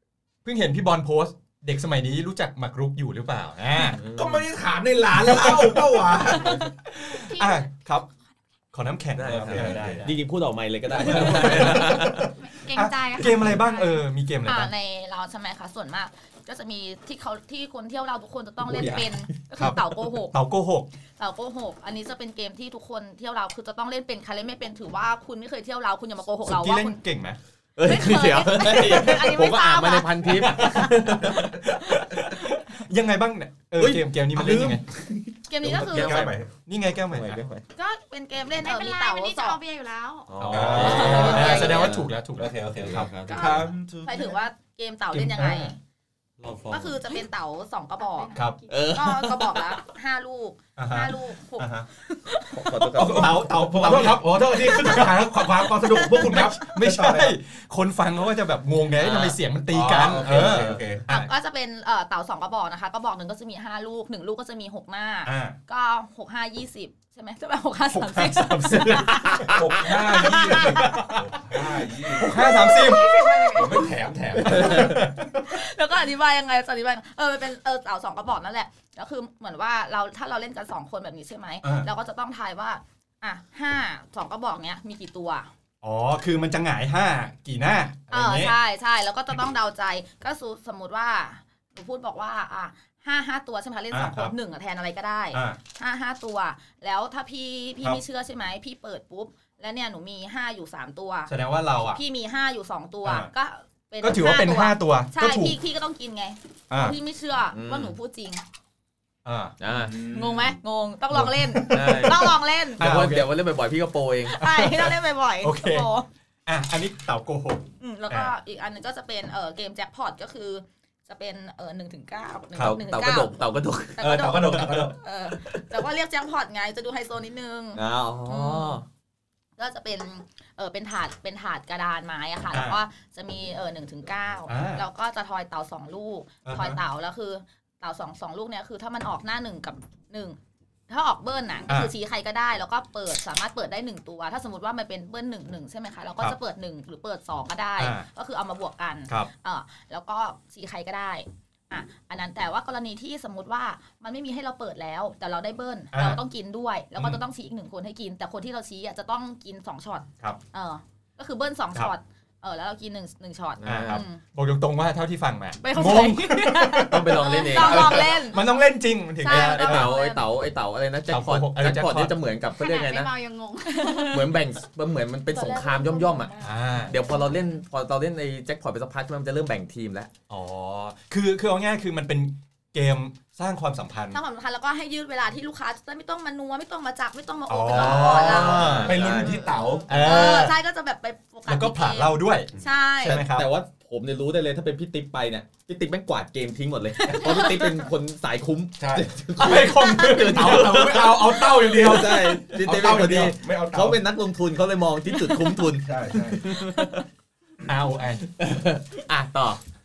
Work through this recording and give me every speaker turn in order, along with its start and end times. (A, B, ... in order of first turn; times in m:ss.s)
0:00.4-0:04.0 A
0:03.9-0:04.4 B
0:04.1-0:06.7 C
0:05.2-0:08.0 A
0:07.2-0:08.1 D
0:08.7-0:10.2 A
0:09.1-0:12.3 B
0:09.3-0:10.0 C
0:10.9-0:14.7 A
0:12.2-0:14.0 D
0:14.4-0:20.4 E
0:18.6-0:19.4 B
0:19.6-0:20.9 A
0:21.2-0:27.0 E
0:26.4-0:27.4 A
0:27.8-0:31.5 B
0:27.8-0:31.4 E
0:30.3-0:34.8 A
0:33.8-0:36.4 B
0:34.3-0:34.8 C
0:35.5-0:36.3 E
0:35.6-0:36.5 C
0:36.6-0:37.4 A
0:37.1-0:37.6 B
0:37.7-0:39.6 E
0:38.6-0:40.4 D
0:40.3-0:42.1 B
0:40.4-0:43.1 A
0:40.4-0:44.4 C
0:40.8-0:41.9 E
0:42.8-0:43.7 B
0:43.2-0:45.8 E
0:45.1-0:45.7 A
0:46.4-0:47.0 B
0:46.7-0:48.4 E
0:48.0-0:49.1 D
0:48.3-0:48.6 A
0:48.7-0:49.8 B
0:48.9-0:53.0 E
0:50.8-0:51.9 A
0:52.5-0:53.4 B
0:52.9-0:57.4 C
0:53.0-1:01.3 A
0:59.0-0:59.4 B
0:59.7-1:01.0 C
1:00.3-1:00.8 B
1:01.1-1:11.1 E
1:05.2-1:05.6 A
1:07.9-1:11.4 A
1:09.2-1:09.5 B
1:09.5-1:12.4 C
1:12.1-1:13.2 A
1:12.2-1:25.5 E
1:13.5-1:15.0 C
1:14.4-1:15.5 A
1:21.6-1:21.9 A
1:25.8-1:28.6 A
1:28.1-1:48.4 E
1:33.9-1:34.3 A
1:35.3-1:35.6 A
1:41.3-1:42.0 A
1:43.0-1:43.3 A
1:44.0-1:45.6 A
1:46.7-1:47.0 A
1:47.5-1:47.9 B
1:49.2-1:50.0 A
1:49.6-1:50.4 B
1:49.9-1:52.9 E
1:51.1-1:52.2 A
1:51.7-1:54.4 B
1:52.8-1:53.4 A
1:54.2-1:56.1 E
1:54.4-1:55.9 A
1:56.4-1:58.3 A
1:57.8-2:08.8 E
2:02.6-2:04.3 B
2:04.0-2:05.0 C
2:04.1-2:04.9 A
2:07.7-2:08.8 B
2:09.6-2:20.4 E
2:12.5-2:12.8 A
2:14.5-2:14.8 A
2:16.4-2:16.8 A
2:20.9-2:44.2 E
2:27.8-2:28.0 A
2:35.9-2:36.2 A
2:37.0-2:37.2 A
2:43.6-2:44.0 B
2:43.6-2:50.0 A
2:45.6-2:48.4 E
2:46.9-2:48.1 B
2:47.3-2:47.9 D
2:49.2-2:49.9 D
2:49.2-2:50.2 E
2:49.2-2:53.1 B
2:51.1-2:52.2 A
2:52.6-2:54.3 D
2:53.6-2:54.4 E
2:54.1-2:56.4 B
2:55.3-2:57.6 E
2:56.4-2:57.0 A
2:56.9-3:00.1 B
3:00.3-3:04.2 A
3:04.1-3:13.2 E
3:07.5-3:09.0 A
3:07.7-3:09.4 B
3:08.4-3:09.9 C
3:09.9-3:10.6 A
3:11.5-3:13.5 A
3:13.1-3:27.0 B
3:17.0-3:17.9 E
3:18.8-3:19.1 C
3:19.4-3:22.5 A
3:20.3-3:24.0 C
3:25.2-3:25.5 E
3:25.8-3:26.5 C
3:27.6-3:28.3 A
3:28.3-3:29.6 B